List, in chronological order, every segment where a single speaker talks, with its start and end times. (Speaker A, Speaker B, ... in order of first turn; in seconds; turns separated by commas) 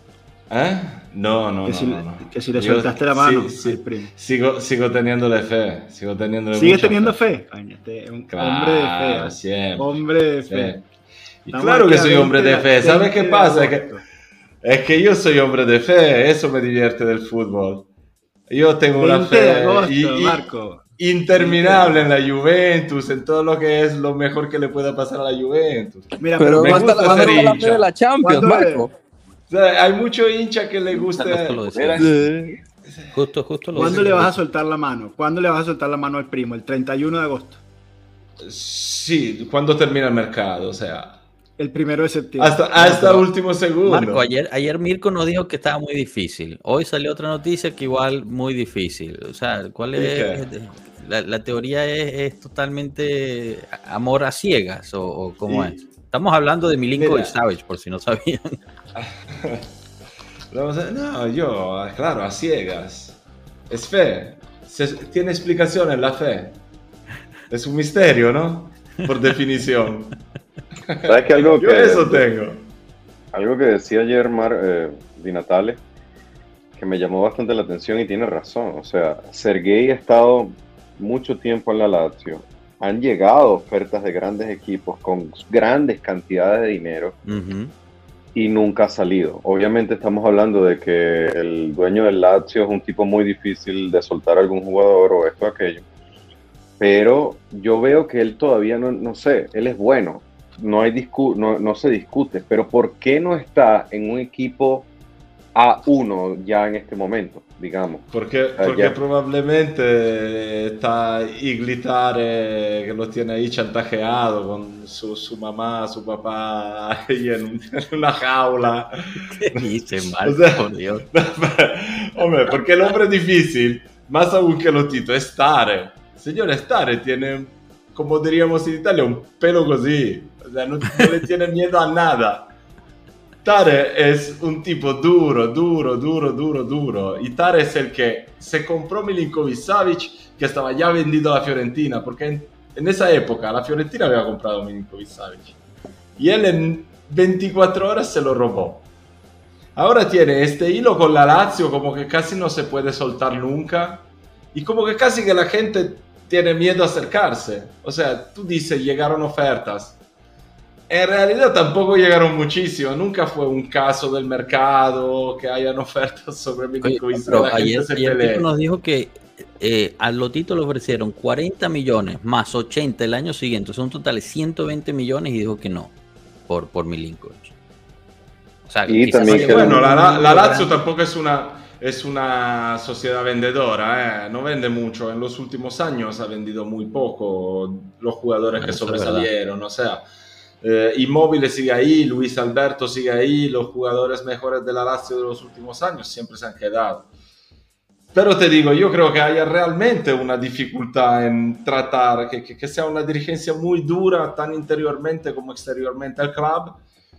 Speaker A: 0.5-7.2, Speaker B: 1.7-4.1, Speaker B: 6.5-10.8, Speaker A: 8.3-9.9, Speaker A: 10.5-10.8, Speaker A: 11.5-13.9, Speaker B: 11.5-14.0, Speaker A: 14.6-17.9, Speaker A: 18.5-20.5, Speaker B: 19.0-22.1, Speaker A: 21.0-27.9, Speaker B: 26.2-27.7, Speaker C: 26.4-28.9, Speaker B: 28.2-28.9, Speaker A: 29.5-31.8, Speaker D: 30.9-32.1, Speaker E: 31.7-32.0, Speaker C: 32.0-32.6, Speaker D: 33.1-34.4, Speaker B: 33.7-37.6, Speaker A: 33.7-34.2, Speaker A: 38.4-41.2, Speaker B: 41.6-43.3, Speaker A: 42.4-44.3, Speaker D: 43.9-58.6, Speaker A: 49.9-50.5, Speaker A: 55.5-55.8, Speaker A: 57.0-57.4, Speaker A: 59.0-59.6, Speaker A: 60.5-63.2, Speaker A: 63.7-66.6, Speaker A: 67.5-70.2, Speaker A: 70.9-72.7, Speaker E: 71.1-72.2, Speaker E: 73.3-75.8, Speaker E: 76.8-87.2, Speaker D: 87.3-87.7, Speaker E: 88.3-95.8, Speaker E: 96.8-104.9, Speaker E: 105.5-108.1, Speaker A: 108.1-119.6, Speaker E: 108.6-109.0, Speaker D: 119.3-121.1, Speaker A: 120.2-132.5, Speaker A: 133.4-145.6, Speaker A: 146.2-148.9, Speaker A: 149.8-160.0, Speaker A: 160.9-168.5, Speaker D: 166.8-175.9, Speaker D: 176.5-177.5, Speaker D: 178.7-180.8, Speaker E: 178.9-179.9, Speaker A: 179.3-190.0, Speaker D: 188.6-189.3, Speaker A: 190.6-197.1, Speaker A: 198.1-206.8